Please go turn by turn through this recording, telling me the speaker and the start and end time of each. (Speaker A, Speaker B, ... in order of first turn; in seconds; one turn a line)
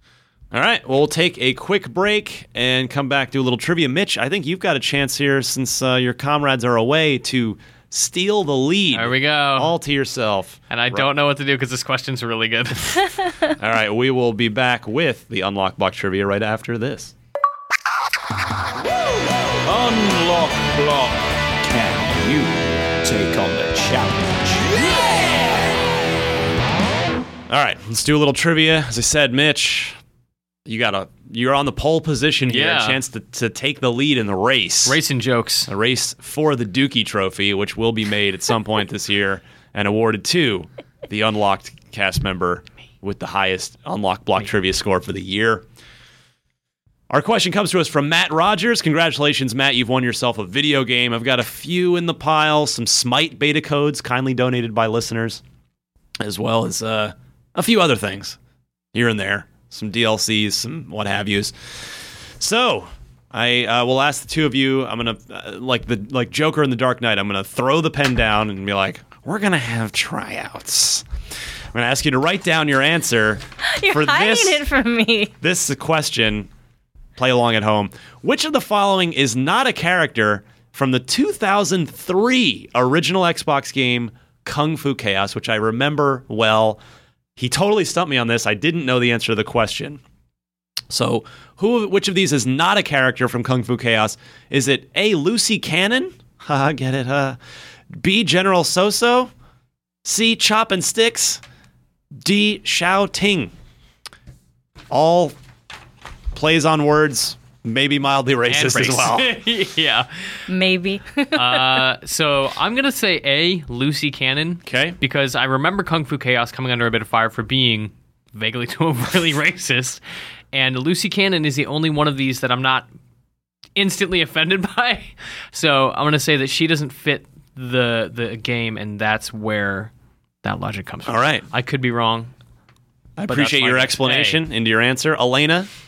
Speaker A: 0.5-11.1
Speaker B: 8.9-9.8
Speaker B: 10.7-13.1
Speaker A: 13.6-17.1
Speaker C: 19.6-25.5
Speaker A: 27.5-30.0
Speaker A: 30.7-35.0
Speaker B: 32.5-33.0
Speaker B: 34.9-35.7
Speaker A: 35.7-45.6
Speaker A: 47.1-55.4
Speaker A: 56.2-58.4
Speaker A: 58.9-61.8
Speaker A: 62.4-71.0
Speaker A: 71.7-74.6
Speaker D: 73.7-75.4
Speaker A: 75.4-76.5
Speaker A: 77.2-86.8
Speaker A: 87.4-90.0
Speaker A: 90.9-97.4
Speaker A: 98.0-99.3
Speaker A: 100.0-101.4
Speaker A: 102.2-103.5
Speaker A: 104.9-105.3
Speaker A: 106.3-109.3
Speaker B: 108.5-110.3
Speaker D: 110.5-111.9
Speaker B: 111.3-120.0
Speaker A: 114.7-115.0
Speaker B: 120.5-122.9
Speaker B: 123.8-129.9
Speaker B: 130.4-132.3
Speaker A: 131.1-131.4
Speaker A: 133.2-135.7
Speaker B: 133.3-134.4